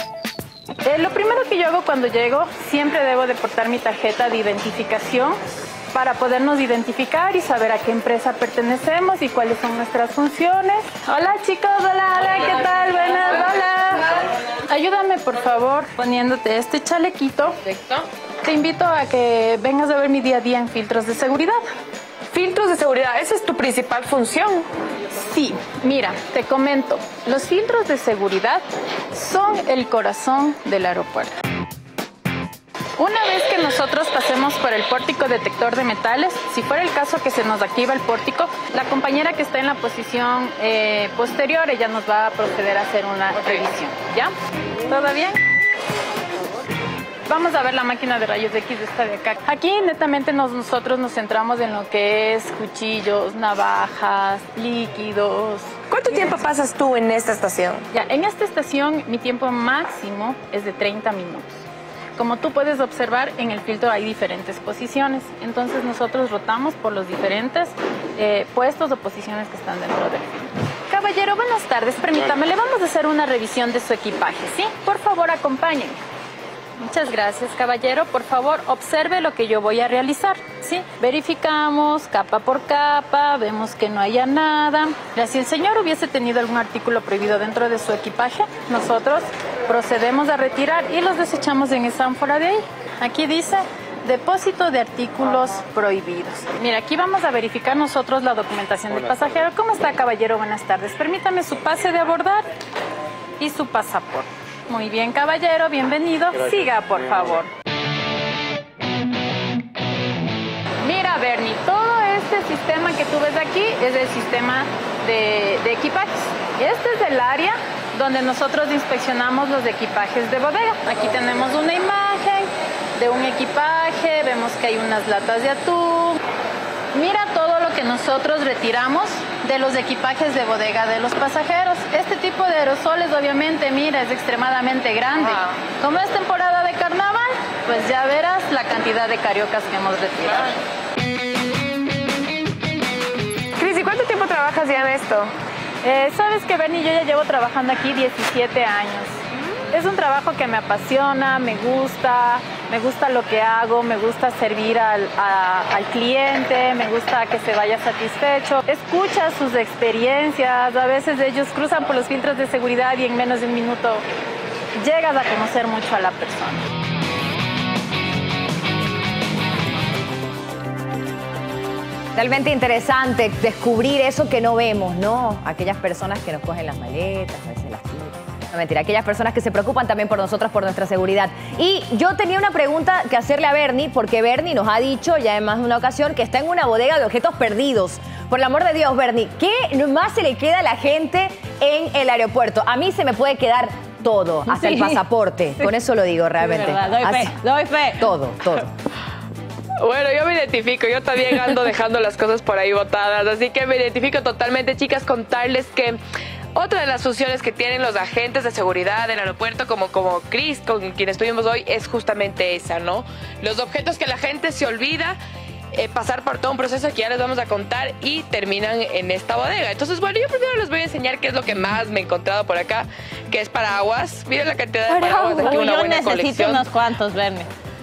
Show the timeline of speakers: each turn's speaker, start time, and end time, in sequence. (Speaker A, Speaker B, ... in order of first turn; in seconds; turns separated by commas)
Speaker A: 0.8-5.4, Speaker A: 5.9-17.6, Speaker B: 17.6-18.1, Speaker A: 18.4-21.6, Speaker B: 22.3-24.7, Speaker A: 25.1-31.3, Speaker A: 33.0-44.3, Speaker A: 44.9-45.4, Speaker A: 47.2-55.7, Speaker B: 55.9-57.9, Speaker A: 57.9-61.6, Speaker A: 62.2-76.0, Speaker A: 76.8-102.5, Speaker A: 103.4-107.5, Speaker A: 110.8-126.2, Speaker A: 126.9-140.6, Speaker B: 135.2-135.5, Speaker B: 143.6-145.3, Speaker A: 145.8-149.2, Speaker A: 149.7-164.0, Speaker A: 164.8-166.6, Speaker C: 172.2-197.4, Speaker D: 194.5-195.0, Speaker D: 196.4-198.1, Speaker C: 198.0-198.7, Speaker B: 199.8-206.0, Speaker B: 206.5-215.2, Speaker B: 215.7-226.7, Speaker D: 225.0-227.5